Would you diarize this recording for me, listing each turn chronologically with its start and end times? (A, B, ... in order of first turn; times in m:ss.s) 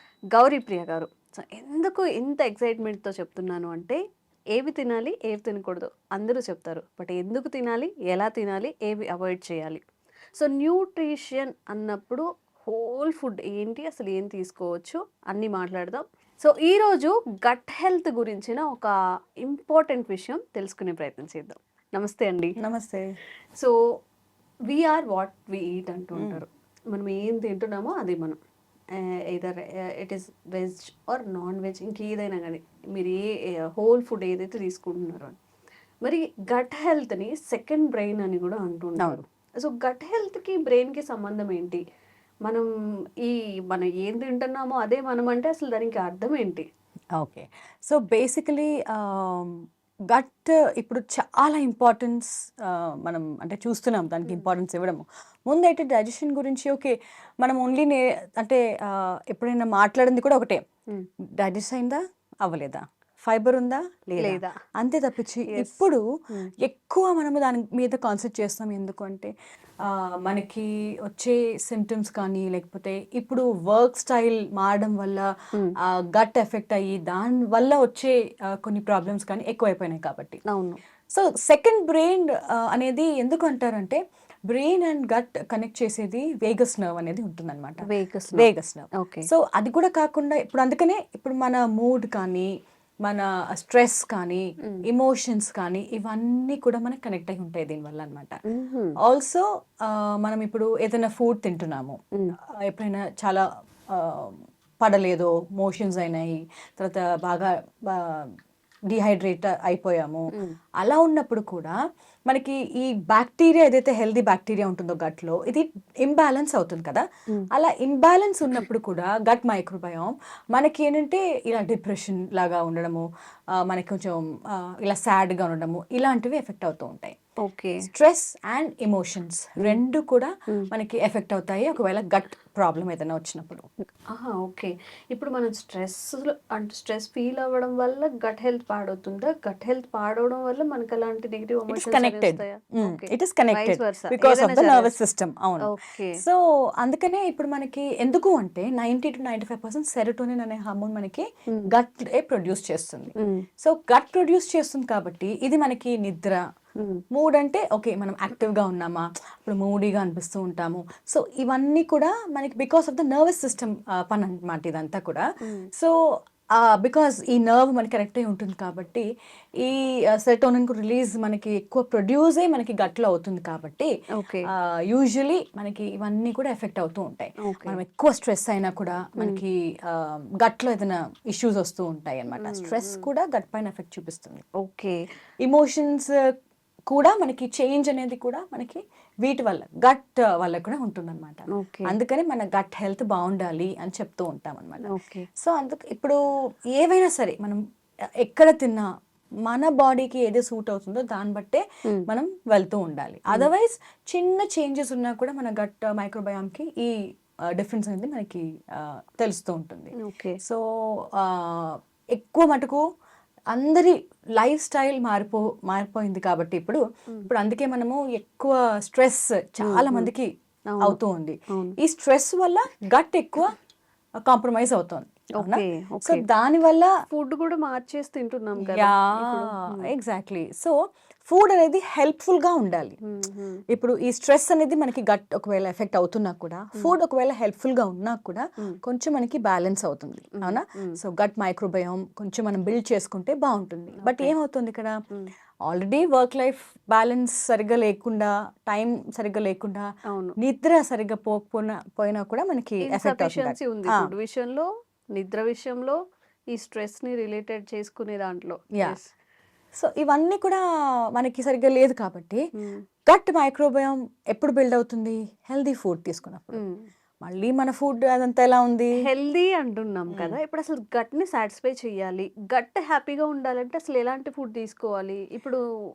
0:00.3-0:04.0 A
0:04.5-0:09.8 A
0:10.4-0:18.9 A
0:19.4-0:22.5 A
0:22.6-0:23.1 B
0:24.7-0:28.4 A
0:26.2-0:26.4 B
0:29.0-0:35.3 A
0:36.0-0:41.8 A
0:43.2-0:46.6 A
0:47.2-0:49.6 B
0:50.1-1:00.6 B
1:01.4-1:06.0 B
1:04.2-1:04.5 A
1:05.5-1:06.5 A
1:06.6-1:09.3 B
1:09.8-1:15.3 B
1:15.9-1:20.4 B
1:20.5-1:20.8 A
1:21.1-1:32.5 B
1:27.8-1:29.3 A
1:33.0-1:38.4 B
1:38.5-1:38.9 A
1:39.0-1:42.0 B
1:42.6-1:48.3 B
1:48.9-1:50.2 B
1:50.8-1:51.7 B
1:52.3-2:03.0 B
2:03.6-2:07.1 B
2:07.4-2:07.9 A
2:07.8-2:13.7 B
2:14.1-2:24.9 A
2:21.7-2:36.4 B
2:25.7-2:26.2 A
2:37.1-2:45.2 B
2:46.6-2:49.0 B
2:49.6-2:53.9 B
2:54.2-2:54.5 A
2:54.5-3:04.4 B
2:57.4-2:57.8 A
3:02.4-3:03.0 A
3:04.6-3:05.0 A
3:05.4-3:06.2 B
3:06.9-3:14.9 B
3:11.5-3:11.9 A
3:14.9-3:15.2 A
3:15.4-3:16.2 B
3:16.8-3:17.6 B
3:18.2-3:18.9 B
3:19.4-3:26.9 B
3:27.5-3:32.8 B
3:30.0-3:30.4 A
3:33.5-3:40.3 B
3:39.6-3:40.1 A
3:40.7-3:41.0 A
3:40.8-3:43.5 B
3:44.2-3:46.9 B
3:45.4-3:46.2 A
3:47.1-3:49.8 A
3:48.6-3:50.8 B
3:51.3-3:53.0 B
3:53.0-3:53.6 A
3:53.7-4:04.9 B
4:00.4-4:00.9 A
4:04.0-4:04.3 A
4:05.7-4:09.9 B
4:10.1-4:10.4 A
4:10.4-4:14.0 B
4:12.9-4:16.0 A
4:16.5-4:19.1 A
4:19.8-4:20.6 B
4:21.1-4:22.4 B
4:23.1-4:26.6 B
4:26.5-4:26.9 A
4:27.2-4:28.9 B
4:29.0-4:35.6 A